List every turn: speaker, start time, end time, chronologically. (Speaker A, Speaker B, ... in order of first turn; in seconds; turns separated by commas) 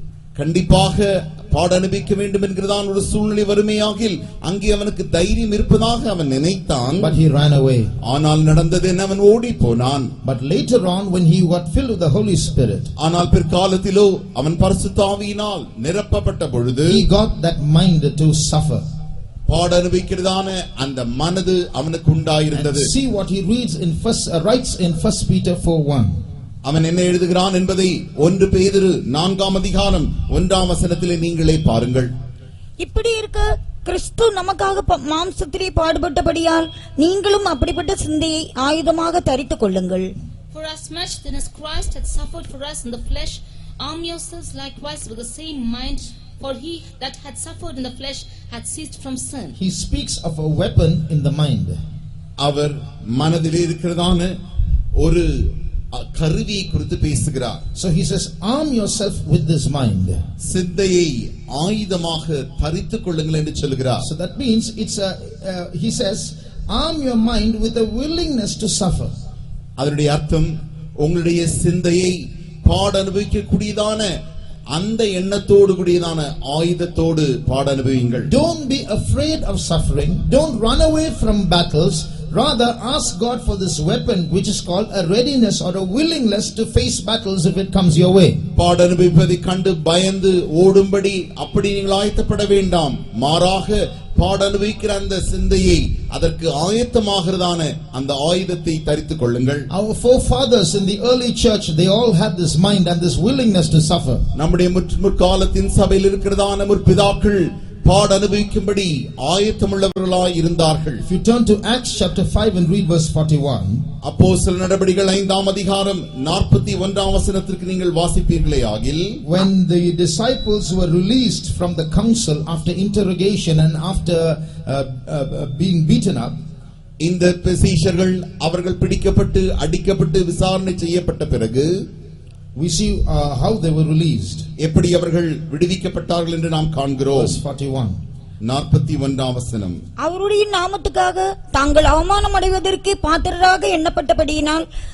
Speaker A: 0.3-7.1, Speaker B: 7.0-7.9, Speaker A: 8.0-10.1, Speaker B: 10.2-12.9, Speaker A: 13.0-17.0, Speaker B: 16.9-18.8, Speaker A: 19.5-22.9, Speaker B: 22.5-26.2, Speaker A: 26.6-32.1, Speaker C: 32.8-40.1, Speaker D: 40.5-49.5, Speaker B: 49.5-51.8, Speaker A: 52.4-54.3, Speaker A: 55.0-57.6, Speaker B: 57.7-60.2, Speaker A: 60.4-64.1, Speaker B: 64.0-69.1, Speaker A: 69.8-74.1, Speaker A: 74.7-78.3, Speaker B: 78.3-88.4, Speaker A: 88.5-99.7, Speaker B: 99.7-104.2, Speaker A: 104.3-111.0, Speaker B: 111.0-113.8, Speaker A: 114.0-119.2, Speaker B: 119.2-126.3, Speaker A: 127.0-131.8, Speaker B: 132.5-134.5, Speaker A: 134.6-137.4, Speaker B: 137.1-138.0, Speaker A: 138.4-139.8, Speaker C: 140.0-144.7